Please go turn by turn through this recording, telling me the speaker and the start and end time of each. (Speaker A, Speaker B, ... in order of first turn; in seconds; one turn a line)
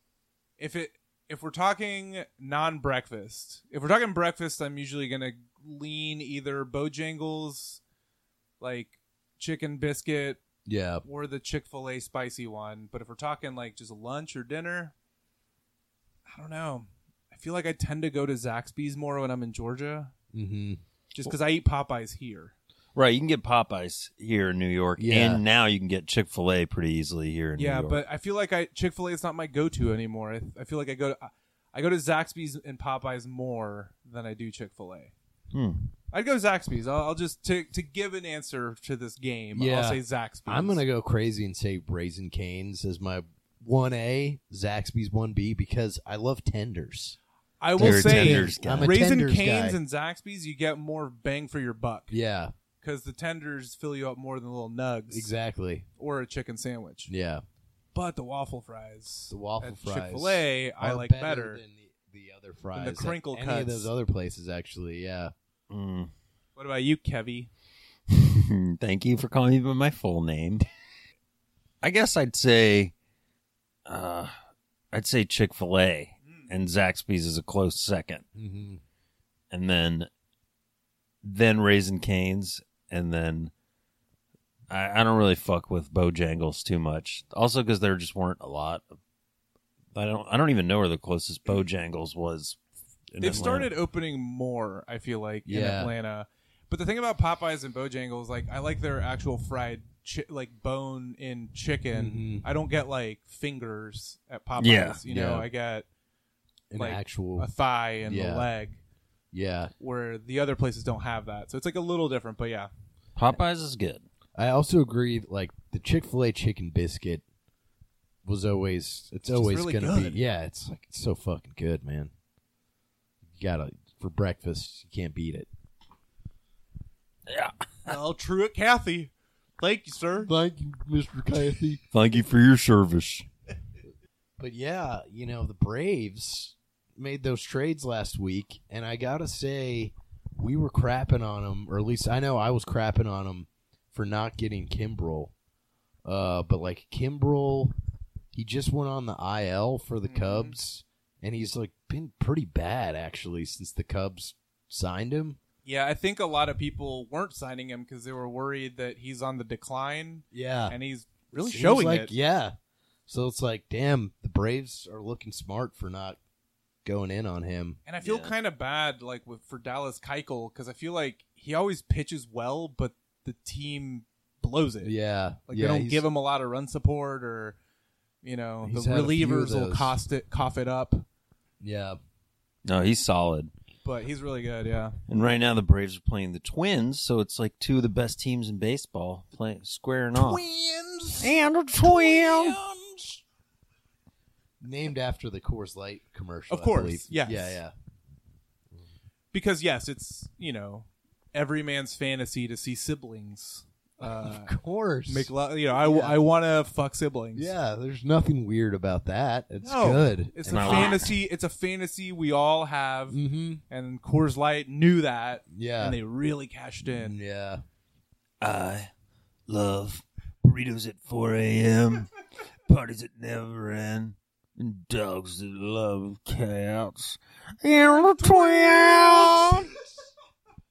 Speaker A: 0.6-7.8
Speaker A: 8.6-10.4
Speaker B: 10.7-11.0
Speaker A: 11.1-14.9
Speaker A: 16.3-20.1
Speaker B: 20.3-20.8
Speaker A: 21.1-22.5
Speaker C: 22.9-28.0
Speaker B: 25.0-25.4
Speaker A: 27.6-35.1
Speaker C: 35.5-35.9
Speaker A: 36.1-40.8
Speaker B: 39.5-47.2
Speaker A: 47.6-52.1
Speaker B: 47.8-49.8
Speaker C: 47.8-48.9
Speaker B: 52.1-52.5
Speaker A: 52.8-55.3
Speaker B: 55.1-55.9
Speaker A: 56.0-57.1
Speaker B: 57.1-57.4
Speaker A: 57.9-61.6
Speaker B: 59.3-65.3
Speaker A: 62.7-63.9
Speaker C: 65.7-66.1
Speaker A: 66.6-67.5
Speaker C: 68.1-70.7
Speaker C: 71.8-72.9
Speaker C: 73.9-74.3
Speaker C: 74.9-78.2
Speaker B: 78.3-78.8
Speaker C: 79.5-80.1
Speaker C: 81.2-83.5
Speaker C: 84.7-88.9
Speaker C: 89.9-92.6
Speaker C: 93.1-93.7
Speaker A: 93.2-105.9
Speaker B: 95.5-95.9
Speaker B: 101.9-102.5
Speaker C: 104.6-105.0
Speaker B: 105.1-105.5
Speaker B: 106.7-107.5
Speaker A: 106.8-108.8
Speaker B: 108.1-108.5
Speaker B: 109.3-109.7
Speaker A: 109.8-112.7
Speaker C: 113.2-114.0
Speaker B: 114.4-117.2
Speaker B: 118.2-122.1
Speaker A: 119.3-120.2
Speaker B: 123.3-125.5
Speaker C: 127.3-128.0
Speaker A: 127.9-130.3
Speaker B: 130.2-131.8
Speaker C: 131.9-133.3
Speaker B: 134.4-145.3
Speaker B: 146.1-147.7
Speaker B: 148.3-155.4
Speaker A: 150.0-150.6
Speaker A: 155.7-162.1
Speaker B: 160.3-160.8
Speaker B: 161.4-162.6
Speaker B: 163.1-166.2
Speaker B: 166.8-167.8
Speaker A: 167.9-174.9
Speaker C: 168.0-168.3
Speaker B: 174.8-176.0
Speaker A: 175.5-177.6
Speaker A: 178.2-181.1
Speaker B: 178.6-179.9
Speaker B: 181.6-182.0
Speaker C: 182.7-183.5
Speaker A: 183.8-185.0
Speaker C: 185.1-190.4
Speaker A: 190.2-193.2
Speaker C: 191.2-192.6
Speaker B: 194.6-197.7
Speaker A: 196.5-197.6
Speaker A: 199.3-204.5
Speaker B: 204.0-206.2
Speaker A: 205.1-207.5
Speaker B: 207.3-211.0
Speaker A: 209.6-213.2
Speaker C: 210.5-211.1
Speaker B: 213.1-213.6
Speaker A: 213.7-217.2
Speaker B: 215.5-216.0
Speaker B: 216.8-217.6
Speaker C: 218.4-218.9
Speaker C: 219.5-222.1
Speaker C: 222.7-229.7
Speaker A: 228.2-229.5